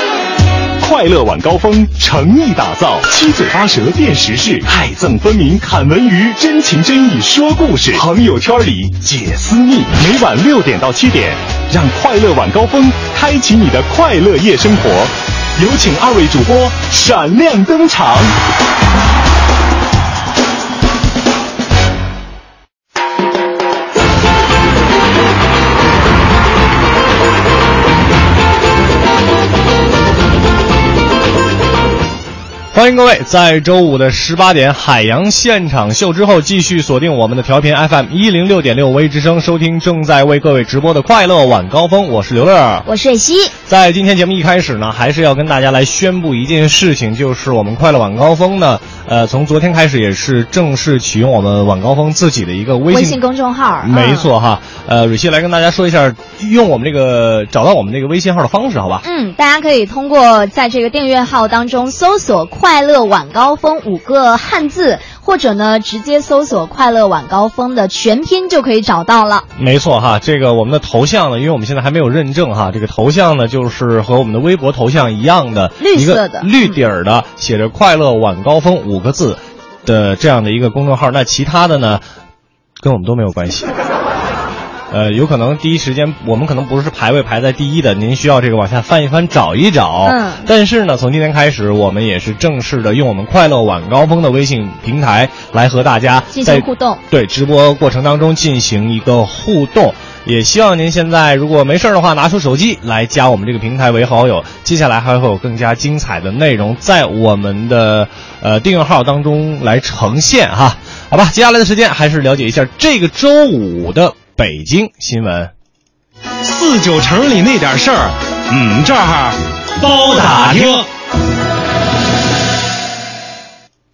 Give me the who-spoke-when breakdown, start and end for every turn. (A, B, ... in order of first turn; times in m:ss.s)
0:00.8-0:18.3 A
0:32.7-0:42.8 B
0:42.8-0:43.5 C
0:43.7-0:53.2 B
0:52.9-0:54.3 C
0:53.8-0:59.0 B
0:59.0-1:09.5 C
1:09.6-1:22.0 B
1:15.8-1:16.7 C
1:22.8-1:23.7 B
1:24.9-1:55.5 B
1:30.0-1:30.4 C
1:36.3-1:37.0 C
1:56.4-2:00.8 A